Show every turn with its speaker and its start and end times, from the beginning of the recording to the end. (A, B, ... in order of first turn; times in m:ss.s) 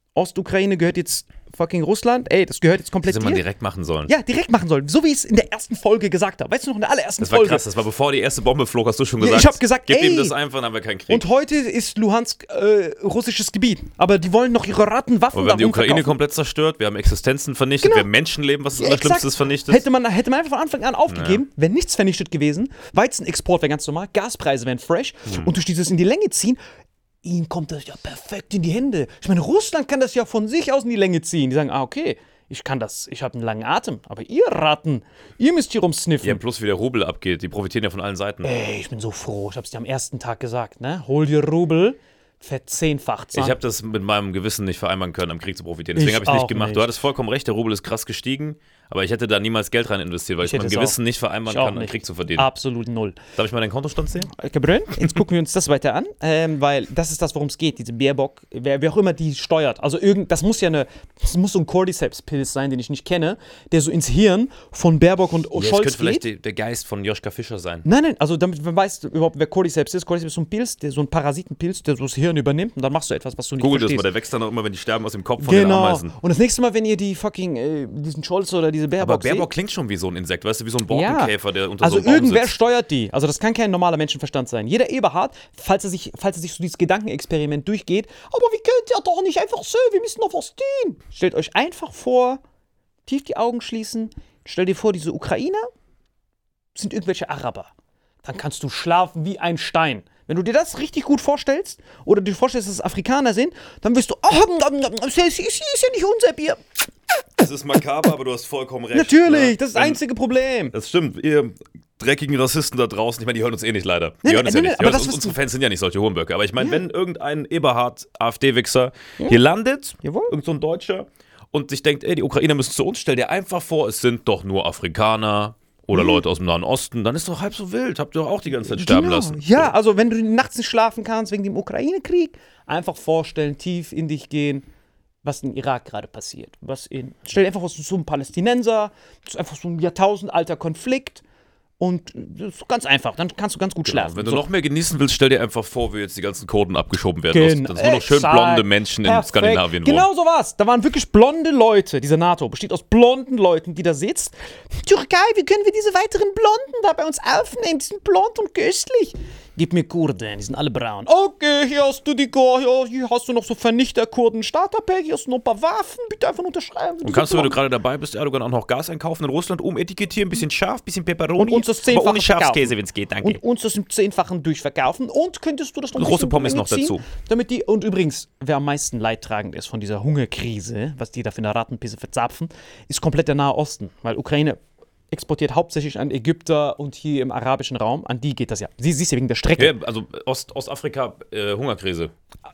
0:00.2-0:03.4 A
0:03.1-0:04.1 B
0:04.1-0:07.6 A
0:07.2-0:11.2 B
0:09.2-0:10.4 A
0:11.1-0:16.2 A
0:15.3-0:19.8 B
0:17.8-0:18.1 A
0:18.8-0:26.6 A
0:21.1-0:21.4 B
0:25.3-0:25.5 B
0:27.2-0:36.4 A
0:36.2-0:38.5 B
0:38.4-0:43.6 A
0:43.3-0:52.5 B
0:46.0-0:46.9 A
0:50.4-0:51.0 A
0:51.5-0:53.2 A
0:53.4-0:54.3 B
0:54.3-1:06.2 A
1:05.6-1:07.9 B
1:07.8-1:14.0 A
1:13.6-1:16.1 B
1:15.4-1:19.5 A
1:19.0-1:22.5 B
1:20.9-1:32.4 A
1:33.1-1:35.7 A
1:36.8-1:37.7 A
1:38.2-1:46.9 A
1:47.4-1:50.0 B
1:48.9-1:50.7 A
1:50.7-2:09.7 B
1:54.2-1:55.4 A
2:00.0-2:00.3 A
2:05.9-2:06.2 A
2:08.6-2:14.7 A
2:15.2-2:21.2 A
2:21.8-2:24.4 A
2:23.8-2:30.1 B
2:27.3-2:47.6 A
2:47.0-2:53.4 B
2:51.4-3:04.6 A
2:56.0-2:57.0 B
3:05.1-3:09.7 A
3:09.6-3:12.1 B